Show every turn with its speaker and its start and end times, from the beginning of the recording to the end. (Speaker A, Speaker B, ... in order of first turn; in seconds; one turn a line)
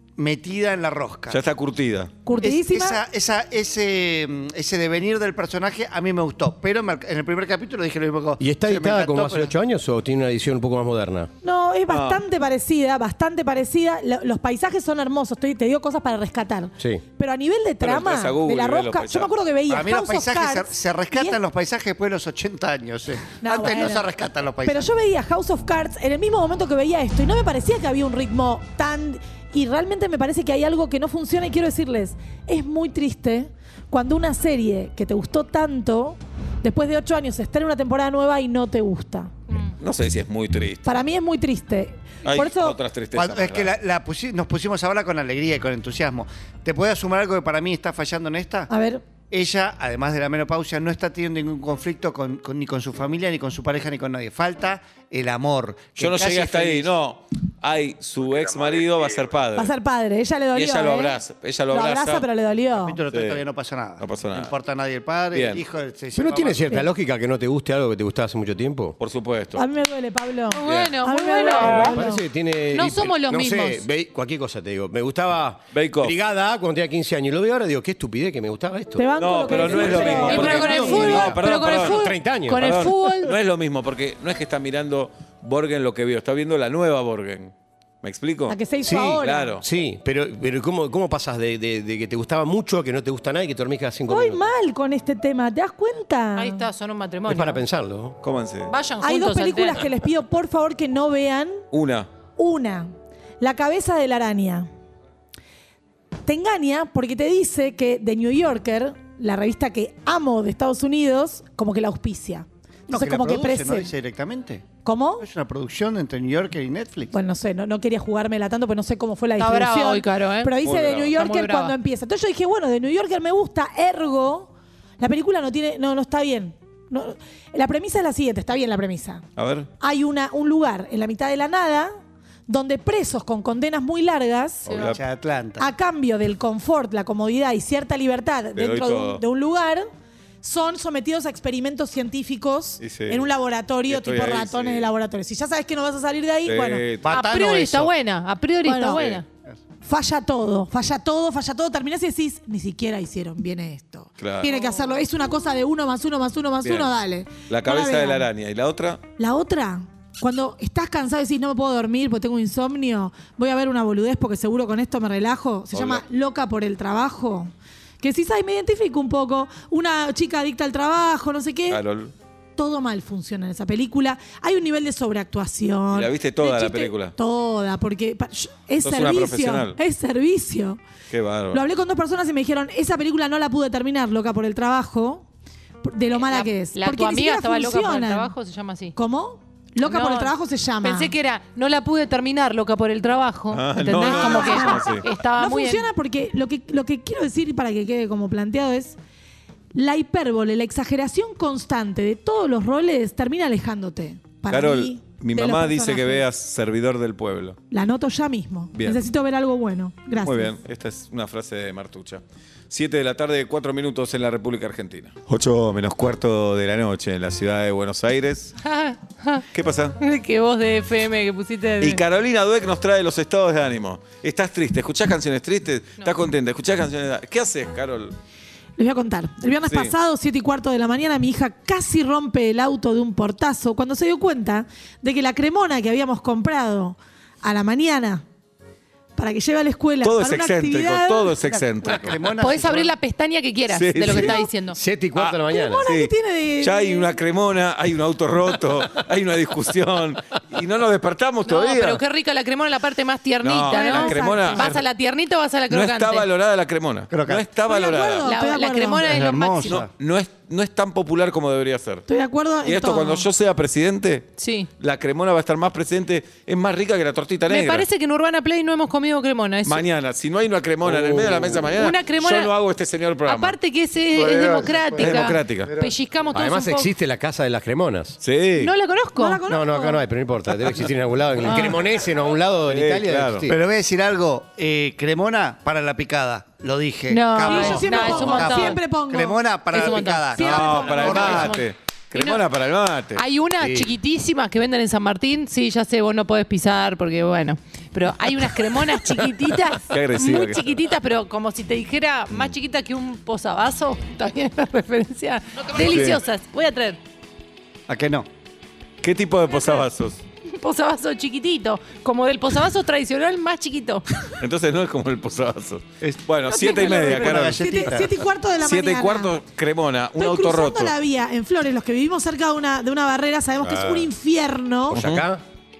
Speaker A: 0.2-1.4
Speaker B: 1.3-2.1
Speaker C: 2.2-3.0
Speaker A: 2.4-9.5
Speaker D: 8.4-11.3
Speaker C: 11.4-21.4
Speaker B: 11.9-12.2
Speaker B: 17.8-19.3
Speaker A: 19.7-24.9
Speaker C: 23.4-24.1
Speaker C: 24.6-39.3
Speaker B: 39.8-41.0
Speaker C: 40.9-42.8
Speaker B: 42.2-43.8
Speaker A: 43.1-48.7
Speaker C: 48.7-49.0
Speaker A: 49.3-56.9
Speaker B: 56.0-59.7
Speaker C: 59.5-63.0
Speaker B: 60.5-62.3
Speaker A: 62.8-66.8
Speaker B: 63.1-63.4
Speaker B: 64.0-64.5
Speaker B: 65.3-65.6
Speaker D: 66.2-69.0
Speaker B: 69.0-69.6
Speaker C: 69.5-72.2
Speaker E: 70.5-71.8
Speaker B: 70.6-71.0
Speaker D: 71.8-79.1
Speaker E: 72.7-73.8
Speaker B: 75.7-76.2
Speaker C: 79.0-81.2
Speaker B: 79.2-82.0
Speaker A: 80.0-81.5
Speaker E: 80.2-83.3
Speaker D: 81.6-83.0
Speaker B: 82.5-88.6
Speaker C: 88.5-89.6
Speaker D: 88.8-94.4
Speaker B: 89.2-89.6
Speaker C: 94.1-96.7
Speaker E: 96.4-97.6
Speaker D: 97.2-98.2
Speaker B: 98.2-98.7
Speaker E: 98.7-99.8
Speaker C: 99.0-101.6
Speaker B: 101.7-102.1
Speaker C: 102.4-104.7
Speaker C: 106.2-113.9
Speaker A: 112.9-114.7
Speaker C: 114.8-115.2
Speaker A: 115.2-117.1
Speaker C: 117.1-129.2
Speaker E: 119.4-120.5
Speaker B: 120.6-121.2
Speaker E: 121.2-121.8
Speaker B: 129.4-129.7
Speaker C: 129.8-131.9
Speaker C: 132.5-134.7
Speaker B: 134.6-135.0
Speaker A: 134.8-135.7
Speaker C: 135.6-139.9
Speaker B: 138.5-139.2
Speaker C: 140.4-146.9
Speaker B: 142.8-143.2
Speaker B: 143.9-144.9
Speaker B: 146.4-147.2
Speaker A: 147.0-147.9
Speaker E: 147.1-149.2
Speaker C: 148.6-149.0
Speaker B: 148.9-149.2
Speaker C: 149.8-158.3
Speaker B: 154.2-154.5
Speaker E: 154.5-154.8
Speaker B: 156.6-156.9
Speaker B: 157.5-159.0
Speaker C: 159.2-171.8
Speaker B: 165.7-166.0
Speaker B: 171.7-172.1
Speaker C: 172.6-180.8
Speaker B: 175.9-177.1
Speaker B: 178.8-179.8
Speaker B: 181.1-181.6
Speaker C: 181.5-185.2
Speaker C: 185.8-188.3
Speaker E: 186.1-188.9
Speaker C: 188.9-191.1
Speaker E: 189.8-195.9
Speaker B: 193.5-195.0
Speaker C: 193.8-199.0
Speaker C: 199.7-206.2
Speaker B: 204.5-207.6
Speaker C: 207.7-210.6
Speaker B: 208.7-209.0
Speaker B: 210.2-218.6
Speaker E: 218.6-219.4
Speaker B: 219.5-220.0
Speaker E: 220.0-222.0
Speaker B: 221.8-228.2
Speaker C: 228.8-238.2
Speaker B: 229.7-229.9
Speaker C: 239.2-241.3
Speaker B: 240.0-242.3
Speaker A: 241.4-242.9
Speaker E: 242.4-244.8
Speaker B: 243.7-244.5
Speaker D: 244.7-245.9
Speaker B: 245.1-252.0
Speaker C: 245.5-247.2
Speaker E: 251.4-256.2
Speaker B: 253.4-254.9
Speaker C: 253.7-254.8
Speaker B: 255.7-258.3
Speaker A: 257.1-257.4
Speaker C: 257.6-259.2
Speaker E: 258.2-259.8
Speaker A: 259.0-259.9
Speaker B: 259.6-262.0
Speaker C: 262.1-263.3
Speaker B: 262.6-267.9
Speaker E: 264.4-264.7
Speaker E: 267.4-269.8
Speaker B: 269.6-273.6
Speaker D: 270.9-271.7
Speaker E: 271.8-272.5
Speaker E: 273.3-276.9
Speaker A: 274.1-275.9
Speaker B: 274.9-275.7
Speaker D: 276.3-278.2
Speaker B: 278.2-278.7
Speaker E: 278.6-279.4
Speaker C: 279.2-280.0
Speaker D: 279.5-283.6
Speaker E: 281.4-281.8
Speaker B: 282.7-283.5
Speaker A: 283.5-291.6
Speaker E: 287.1-288.8
Speaker C: 287.4-291.2
Speaker E: 289.7-292.4
Speaker B: 290.4-293.2
Speaker E: 293.1-307.0
Speaker D: 293.6-293.9
Speaker B: 299.9-300.8
Speaker B: 305.8-306.2
Speaker A: 307.9-308.3
Speaker B: 309.0-310.2
Speaker E: 310.6-314.0
Speaker B: 314.2-317.9
Speaker A: 316.0-318.2
Speaker C: 316.5-319.4
Speaker B: 318.6-320.9
Speaker C: 320.2-325.0
Speaker D: 323.6-324.1
Speaker D: 324.9-325.4
Speaker B: 324.9-325.2